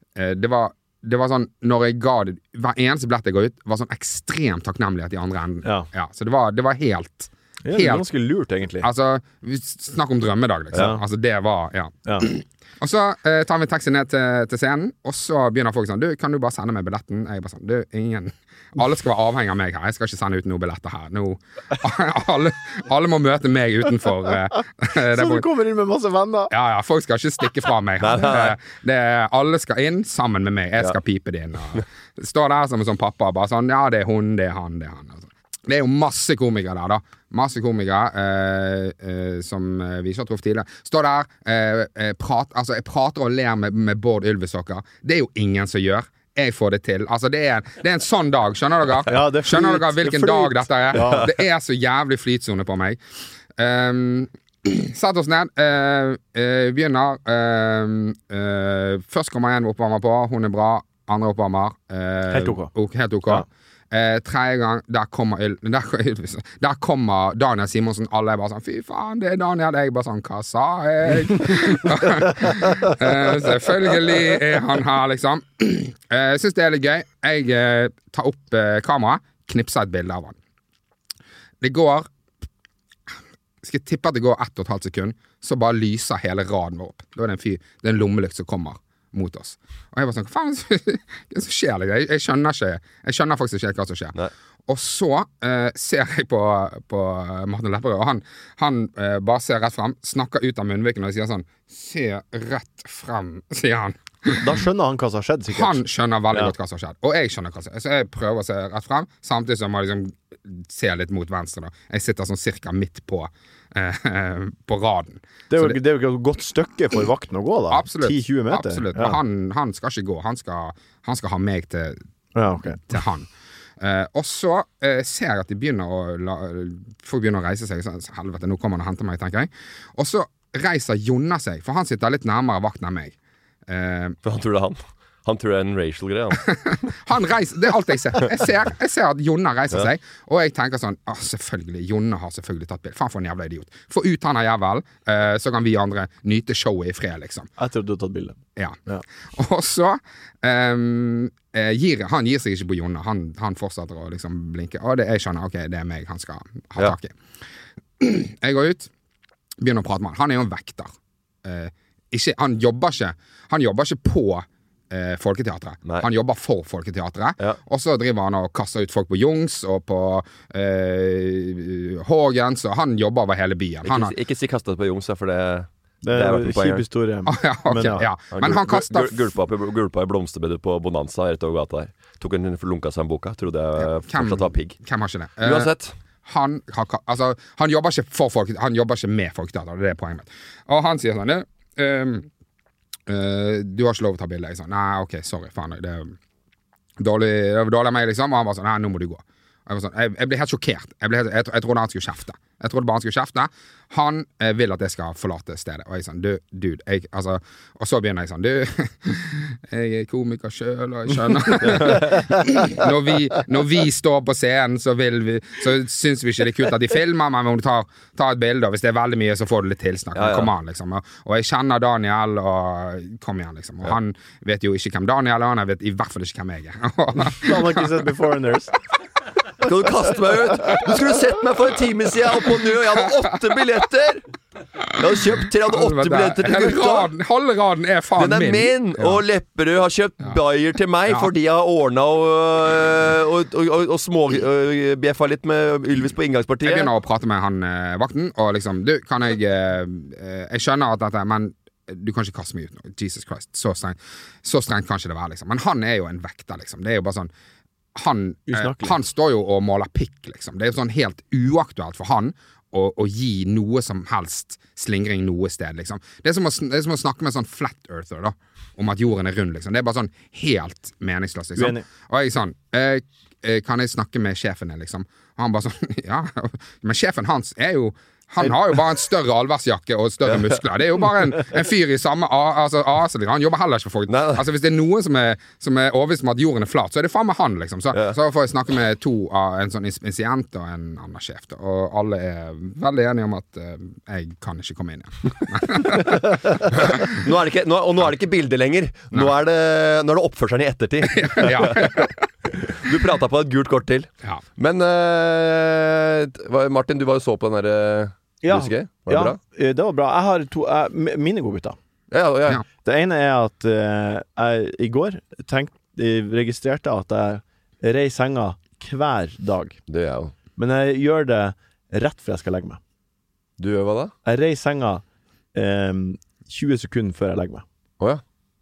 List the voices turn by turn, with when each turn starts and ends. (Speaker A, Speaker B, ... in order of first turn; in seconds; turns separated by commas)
Speaker A: 0.2-8.1, Speaker B: 7.6-8.9, Speaker A: 8.8-25.5, Speaker B: 10.7-11.0, Speaker B: 25.1-26.5, Speaker A: 26.5-53.0, Speaker C: 28.0-28.6, Speaker B: 49.1-51.3, Speaker A: 53.5-80.4, Speaker B: 62.3-62.7, Speaker A: 81.6-82.1, Speaker A: 83.6-94.2, Speaker A: 94.7-104.5, Speaker B: 104.4-105.8, Speaker A: 105.5-115.8, Speaker B: 115.5-119.2, Speaker A: 117.7-122.0, Speaker B: 122.3-122.8, Speaker A: 122.9-133.2, Speaker A: 133.7-134.2, Speaker C: 134.2-136.5, Speaker A: 136.5-147.5, Speaker B: 147.6-149.0, Speaker A: 149.3-157.2, Speaker A: 158.0-158.9, Speaker A: 159.6-160.9, Speaker A: 161.4-174.1, Speaker C: 173.8-176.8, Speaker B: 176.0-178.1, Speaker A: 177.3-179.3, Speaker C: 178.3-184.8, Speaker A: 183.8-185.7, Speaker C: 185.4-185.9, Speaker A: 186.2-192.3, Speaker A: 193.1-196.2, Speaker A: 197.0-227.9, Speaker C: 220.2-220.5, Speaker B: 227.3-228.7, Speaker C: 229.6-234.2, Speaker C: 235.0-237.1, Speaker A: 235.4-239.2, Speaker C: 238.2-246.9, Speaker A: 241.1-241.3, Speaker A: 246.6-257.3, Speaker A: 257.9-297.2, Speaker B: 258.5-259.0, Speaker B: 271.6-271.9, Speaker C: 284.1-284.4, Speaker C: 296.7-302.1, Speaker A: 301.1-302.3, Speaker C: 302.7-309.4, Speaker B: 308.4-311.8, Speaker C: 312.1-312.6, Speaker B: 312.8-319.8, Speaker C: 319.9-320.3, Speaker B: 320.6-322.8, Speaker C: 323.6-324.1, Speaker B: 324.3-325.0, Speaker B: 325.5-327.6